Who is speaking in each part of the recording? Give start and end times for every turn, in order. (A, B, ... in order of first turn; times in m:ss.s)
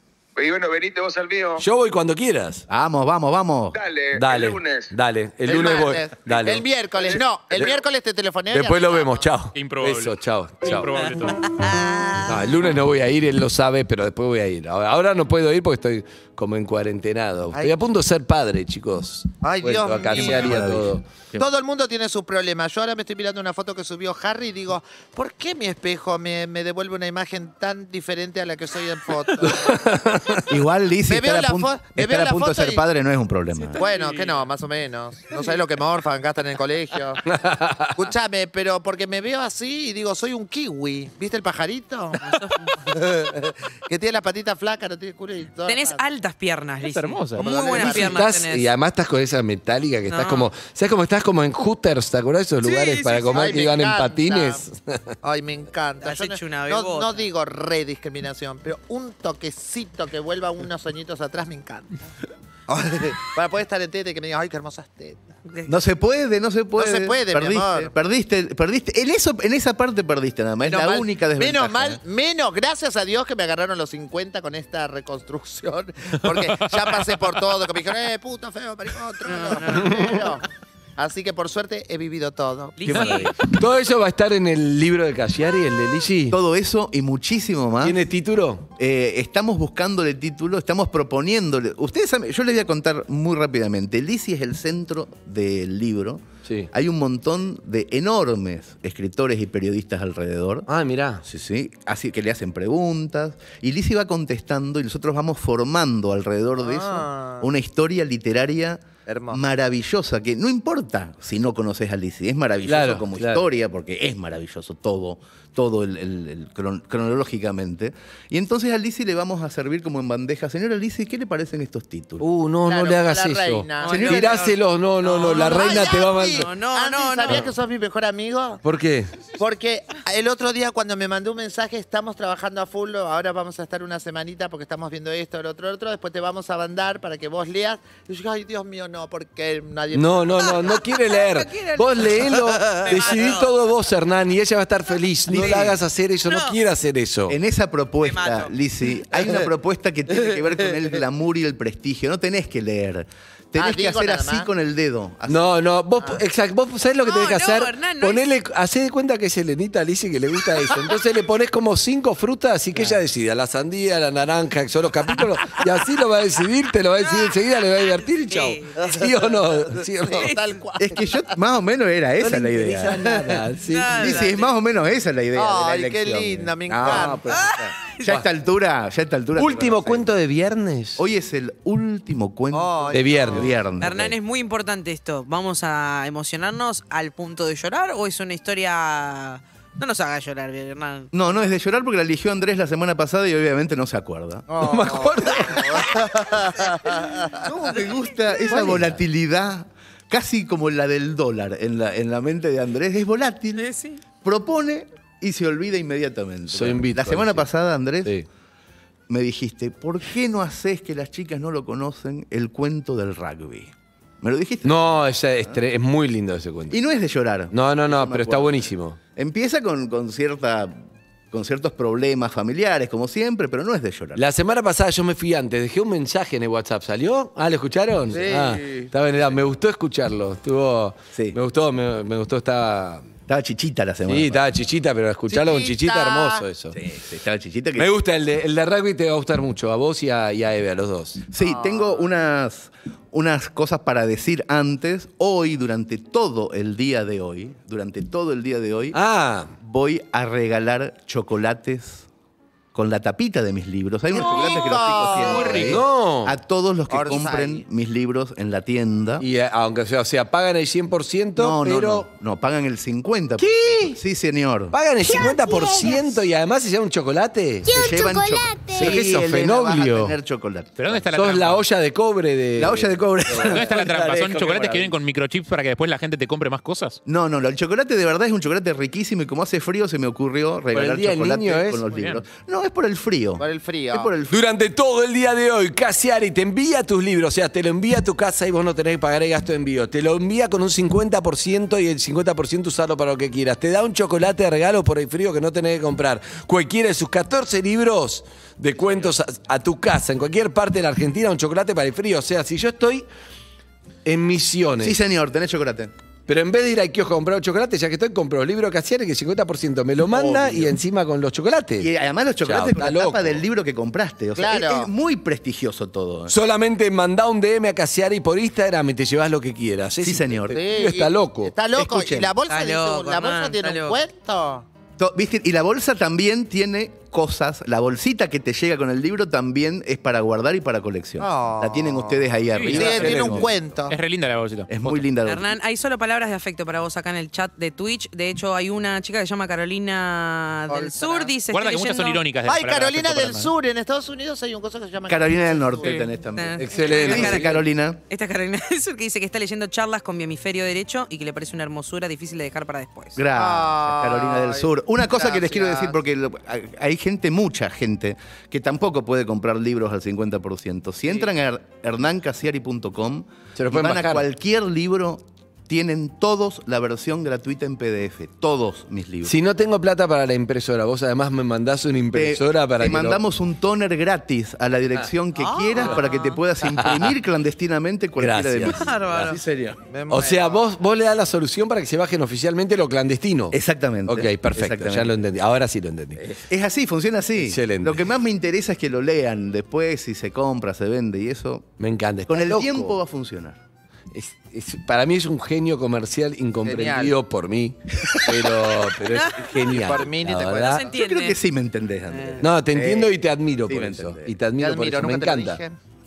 0:00.4-0:01.6 A
0:01.6-0:02.6 B
0:02.7-0:03.8 C
0:03.7-0:04.9 A
0:04.1-0:06.6 B
0:05.4-0:09.3 D
0:07.0-0:07.7 A
0:08.5-0:10.9 B
0:09.5-0:11.4 E
0:10.9-0:12.5 F
0:12.2-0:21.0 B
0:19.4-0:20.6 D
0:20.0-0:21.4 C
0:21.4-0:29.9 D
0:29.4-0:30.5 B
0:30.5-0:33.8 C
0:31.1-0:32.8 D
0:33.7-0:37.3 D
0:37.2-0:37.9 B
0:37.9-0:46.0 D
0:42.2-0:42.8 F
0:45.6-0:48.7 F
0:46.8-0:47.4 E
0:47.4-0:48.2 D
0:47.7-0:55.1 B
0:50.1-0:50.5 F
0:52.6-0:53.5 F
0:53.2-0:54.6 D
0:55.2-1:01.9 D
0:56.0-0:57.2 F
1:02.7-1:05.4 D
1:05.5-1:05.7 F
1:05.6-1:12.0 C
1:06.8-1:07.9 D
1:10.6-1:20.4 D
1:19.2-1:20.3 F
1:21.0-1:22.9 D
1:22.8-1:23.3 F
1:22.9-1:26.4 B
1:22.9-1:23.2 C
1:26.3-1:28.0 C
1:27.8-1:28.6 B
1:28.8-1:40.7 C
1:40.7-1:41.2 B
1:41.2-2:02.2 C
1:46.6-1:47.4 D
1:49.1-1:49.4 D
1:52.6-1:53.4 B
2:02.2-2:06.5 B
2:02.6-2:04.2 D
2:03.8-2:07.5 F
2:03.9-2:04.4 C
2:05.1-2:08.6 D
2:08.6-2:09.2 B
2:09.3-2:20.6 D
2:19.9-2:27.4 B
2:20.4-2:23.6 F
2:25.3-2:25.8 C
2:25.3-2:25.7 F
2:26.2-2:26.6 F
2:27.3-2:35.5 C
2:28.0-2:28.5 F
2:33.6-2:34.5 D
2:35.3-2:50.3 B
2:37.0-2:38.2 F
2:47.0-2:48.8 F
2:48.8-2:51.3 D
2:50.8-3:00.1 C
2:52.2-2:54.2 B
2:53.6-2:54.5 F
2:55.3-2:57.5 D
2:56.9-2:57.1 B
2:57.3-2:58.1 F
2:59.4-3:01.0 B
3:01.0-3:04.2 C
3:02.5-3:03.5 D
3:02.9-3:03.5 B
3:03.2-3:11.1 F
3:11.1-3:14.5 C
3:14.5-3:17.4 D
3:14.6-3:16.0 B
3:17.3-3:23.6 C
3:18.5-3:19.0 B
3:23.5-3:24.0 F
3:24.2-3:28.1 C
3:26.5-3:27.4 B
3:29.1-3:34.8 C
3:34.6-3:36.8 B
3:36.7-3:44.2 C
3:37.5-3:39.0 B
3:44.2-3:53.0 B
3:48.1-3:48.9 D
3:53.3-3:54.4 C
3:54.1-3:56.8 B
3:55.3-3:56.4 D
3:56.7-3:57.9 C
3:57.8-4:01.3 B
4:01.3-4:09.0 C
4:01.4-4:02.1 D
4:08.9-4:09.5 B
4:09.6-4:12.0 C
4:12.7-4:19.2 C
4:14.1-4:15.8 D
4:15.3-4:15.7 E
4:15.4-4:16.4 B
4:16.9-4:17.6 D
4:19.2-4:22.0 B
4:21.4-4:24.7 C
4:23.4-4:24.0 B
4:24.7-4:27.8 B
4:27.6-4:31.0 C
4:28.7-4:30.2 B
4:30.8-4:31.6 E
4:31.1-4:34.0 B
4:32.6-4:34.9 C
4:33.4-4:37.0 E
4:37.0-4:44.4 C
4:40.7-4:41.9 B
4:41.9-4:42.2 E
4:43.4-4:44.1 D
4:44.3-5:03.0 B
5:04.0-5:05.0 B
5:04.8-5:05.9 C
5:06.3-5:11.9 B
5:10.1-5:10.8 C
5:11.8-5:16.4 C
5:12.4-5:13.4 B
5:14.4-5:14.9 D
5:16.3-5:21.5 B
5:20.0-5:20.6 C
5:20.5-5:24.6 D
5:21.7-5:22.3 C
5:22.5-5:24.0 F
5:25.0-5:33.5 C
5:31.2-5:34.0 D
5:32.5-5:35.0 E
5:34.7-5:35.6 C
5:35.2-5:42.2 F
5:40.7-5:41.3 D
5:41.5-5:43.5 E
5:42.5-5:46.0 D
5:45.1-5:48.0 C
5:46.4-5:53.2 F
5:46.6-5:47.6 B
5:53.1-6:09.4 C
5:53.3-5:56.0 D
6:03.6-6:04.2 B
6:09.2-6:13.2 B
6:12.1-6:19.8 C
6:15.3-6:16.4 F
6:16.7-6:17.1 B
6:18.2-6:19.4 B
6:18.7-6:19.4 F
6:19.9-6:20.6 D
6:20.1-6:26.4 B
6:23.5-6:25.2 C
6:26.3-6:31.7 C
6:27.4-6:28.0 B
6:31.8-6:32.9 B
6:32.3-6:33.6 C
6:34.1-6:40.8 B
6:36.6-6:37.1 D
6:38.1-6:38.5 C
6:39.1-6:39.5 F
6:39.6-6:40.9 D
6:40.7-6:41.4 F
6:40.8-6:44.3 C
6:42.1-6:42.4 F
6:42.4-6:45.6 B
6:44.6-6:45.7 D